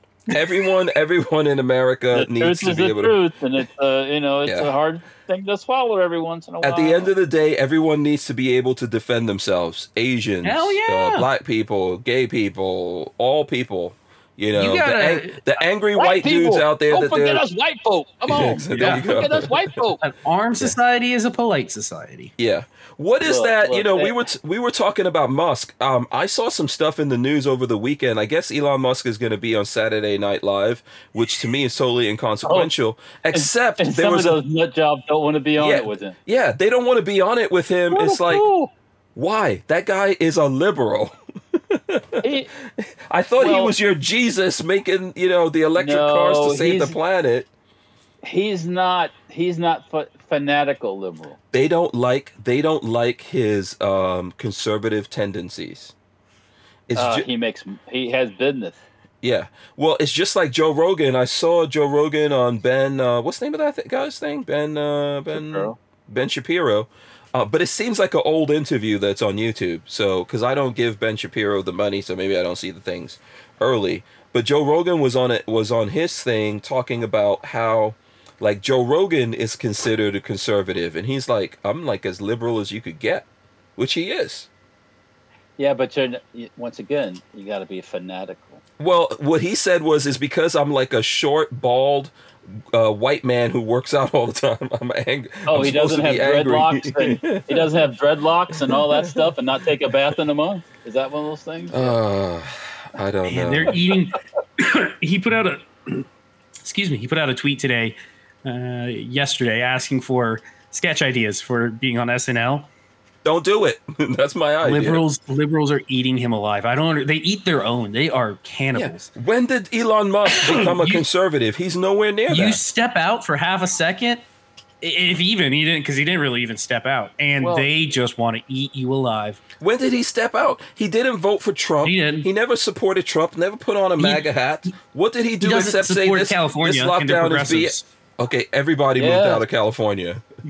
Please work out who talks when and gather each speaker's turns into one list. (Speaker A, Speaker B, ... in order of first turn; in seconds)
Speaker A: 0.3-3.1, 4.5-4.7, 6.6-17.4, 18.3-19.8, 22.4-34.4, 35.6-38.5, 39.2-47.5, 51.5-55.9, 56.9-57.3, 59.2-83.3, 83.8-84.5, 88.8-97.9, 98.6-99.2, 101.7-103.8, 113.2-115.0, 118.7-122.6, 129.6-140.2
Speaker B: 0.3-0.7, 10.4-11.3, 14.6-15.5, 18.7-19.1, 20.0-22.3, 103.3-106.1, 106.6-112.7, 114.6-119.1, 120.3-121.0, 122.3-124.2, 124.8-129.4, 131.8-132.3, 134.0-134.7, 135.4-137.9
Speaker C: 2.1-7.1, 16.0-20.0, 23.2-24.2, 32.5-32.7, 33.3-36.1, 37.9-38.7, 42.2-42.5, 43.4-43.8, 45.8-47.0, 48.2-51.4, 57.0-58.8, 65.3-65.8, 85.6-88.6, 95.5-102.0, 127.4-127.7, 139.0-139.4